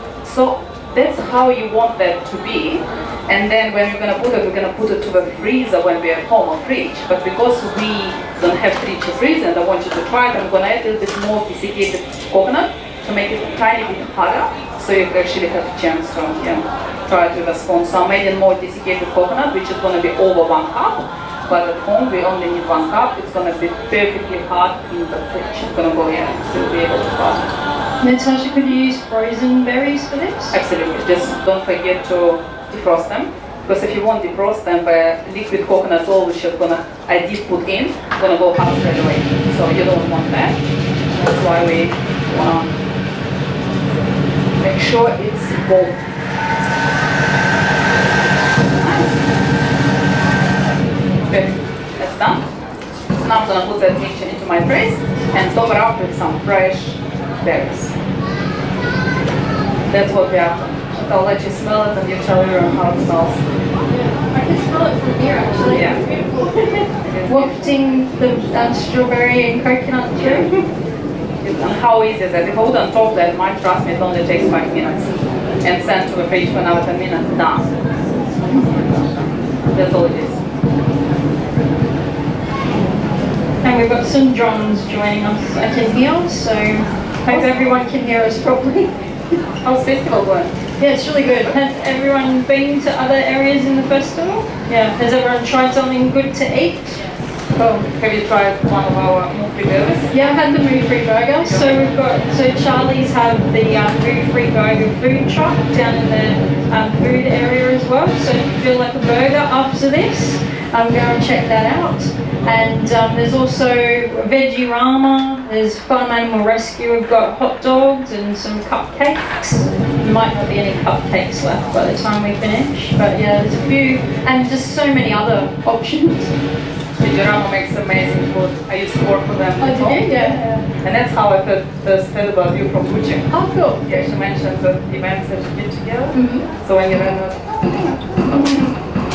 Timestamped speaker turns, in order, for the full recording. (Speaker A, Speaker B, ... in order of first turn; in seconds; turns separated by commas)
Speaker A: 0.2-27.5, Speaker B: 28.0-30.6, Speaker A: 30.5-40.6, Speaker A: 41.1-42.7, Speaker A: 44.6-46.0, Speaker A: 48.6-49.2, Speaker A: 51.3-52.4, Speaker A: 53.1-57.9, Speaker A: 59.9-63.4, Speaker B: 63.9-70.6, Speaker A: 65.7-66.0, Speaker A: 67.0-67.8, Speaker A: 70.2-70.5, Speaker A: 71.4-77.7, Speaker A: 78.4-79.2, Speaker A: 79.7-80.4, Speaker B: 83.6-88.9, Speaker A: 87.3-87.5, Speaker A: 89.6-90.5, Speaker B: 90.8-97.0, Speaker B: 97.5-97.9, Speaker A: 98.0-100.1, Speaker B: 100.1-126.3, Speaker A: 101.4-101.9, Speaker A: 127.0-133.2, Speaker B: 129.6-130.7, Speaker B: 133.3-133.8, Speaker A: 133.8-138.7, Speaker B: 136.1-136.4